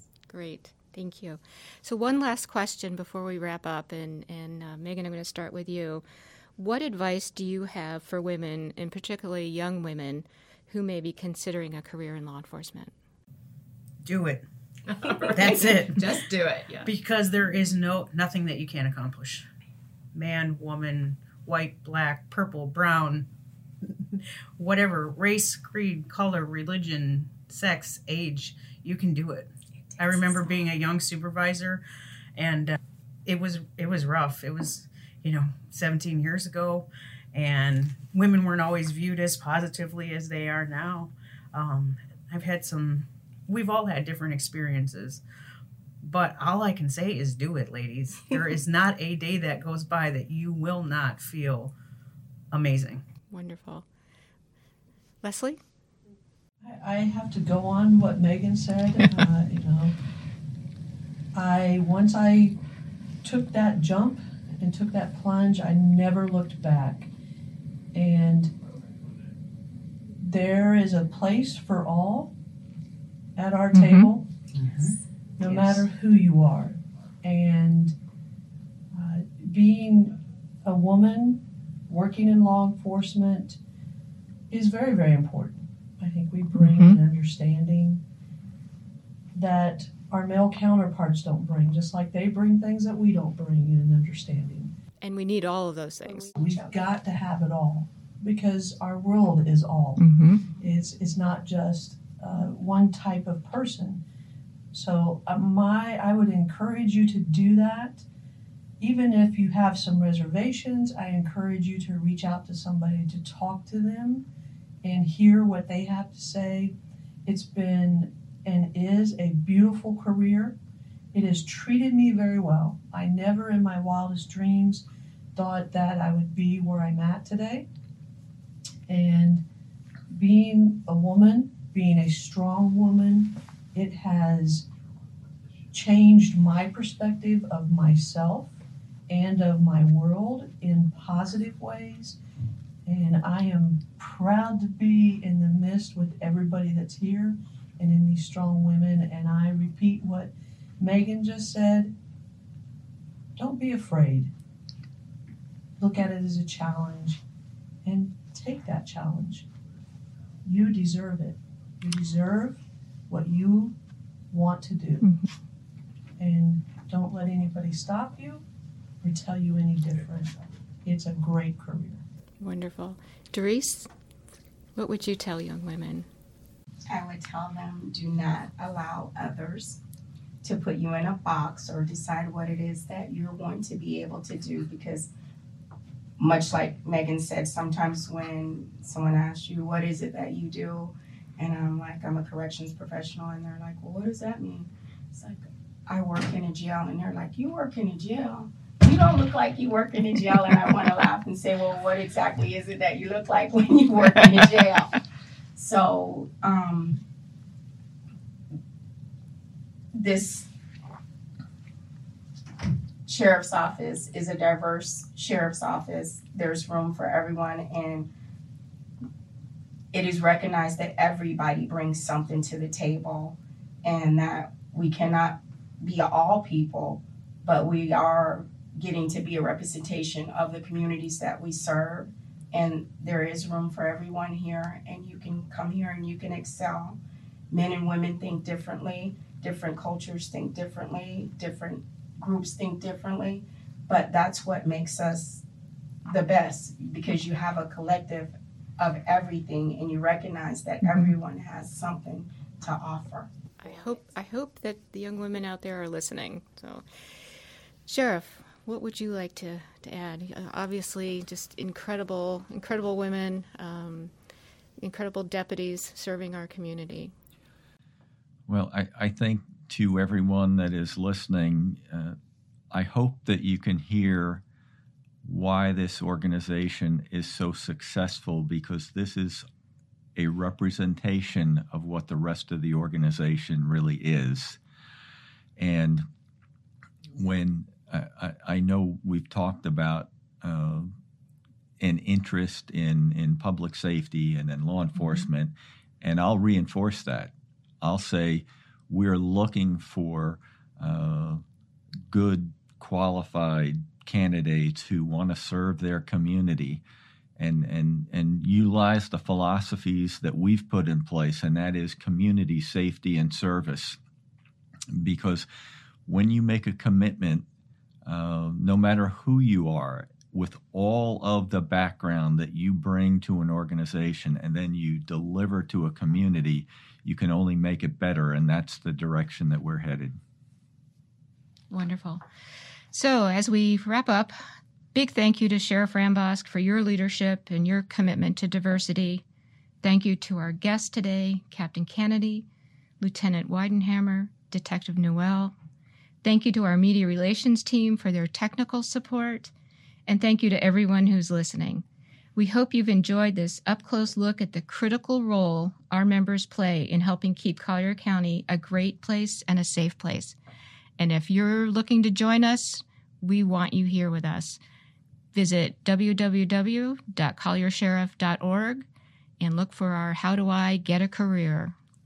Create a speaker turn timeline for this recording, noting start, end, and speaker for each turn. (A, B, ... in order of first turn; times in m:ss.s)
0:00.3-0:06.0 A
0:06.6-0:12.9 A
0:14.0-0:14.4 B
0:14.9-0:16.9 A
0:15.3-0:16.1 B
0:16.8-0:19.5 B
0:20.1-0:23.3 B
0:23.9-0:31.8 B
0:32.4-0:45.2 B
0:46.0-0:51.7 B
0:52.5-0:53.0 B
0:53.3-0:53.8 A
0:55.2-0:55.6 A
0:56.6-1:00.0 C
1:01.3-1:02.6 C
1:03.2-1:07.1 C
1:07.9-1:08.5 C
1:10.2-1:12.3 C
1:13.4-1:14.3 C
1:13.7-1:14.1 A
1:14.6-1:14.9 B
1:15.4-1:18.0 C
1:15.4-1:15.8 A
1:18.9-1:23.6 C
1:24.5-1:28.0 C
1:26.6-1:27.0 A
1:29.3-1:34.7 C
1:35.0-1:36.3 A
1:36.3-1:44.0 C
1:40.0-1:40.4 A
1:44.7-1:48.0 C
1:48.8-1:54.2 C
1:54.8-1:56.7 C
1:57.2-2:00.6 C
2:01.1-2:07.7 C
2:08.9-2:09.4 C
2:10.1-2:14.7 C
2:15.7-2:18.5 C
2:19.1-2:22.2 C
2:22.8-2:31.9 C
2:33.4-2:34.3 C
2:35.8-2:37.2 C
2:37.8-2:39.5 C
2:40.4-2:43.8 C
2:44.3-2:45.0 C
2:45.0-2:45.3 A
2:46.2-2:48.4 C
2:49.0-2:52.0 C
2:52.4-2:53.9 A
2:54.8-2:56.1 A
2:56.9-2:59.8 D
3:00.4-3:05.1 D
3:06.2-3:25.0 D
3:25.6-3:27.0 D
3:29.9-3:30.5 D
3:33.0-3:38.1 D
3:39.9-3:57.0 D
3:57.5-4:05.4 D
4:06.1-4:13.3 D
4:10.8-4:11.1 A
4:13.6-4:17.3 A
4:17.8-4:24.1 A
4:24.8-4:27.1 A
4:28.5-4:32.2 E
4:32.7-4:34.4 E
4:35.2-4:39.4 E
4:40.2-4:44.6 E
4:45.6-4:46.0 E
4:47.2-4:50.9 E
4:51.8-5:01.4 E
4:55.0-4:55.3 A
5:02.1-5:06.8 E
5:07.4-5:14.0 E
5:14.9-5:15.4 E
5:16.0-5:17.4 E
5:18.0-5:30.2 E
5:31.7-5:32.2 A
5:32.9-5:34.3 A
5:34.9-5:39.2 A
5:39.8-5:42.4 A
5:43.0-5:45.6 A
5:46.2-5:49.5 A
5:50.1-5:51.8 A
5:52.4-6:00.4 A
6:01.0-6:04.6 A
6:05.3-6:08.8 A
6:09.4-6:11.8 A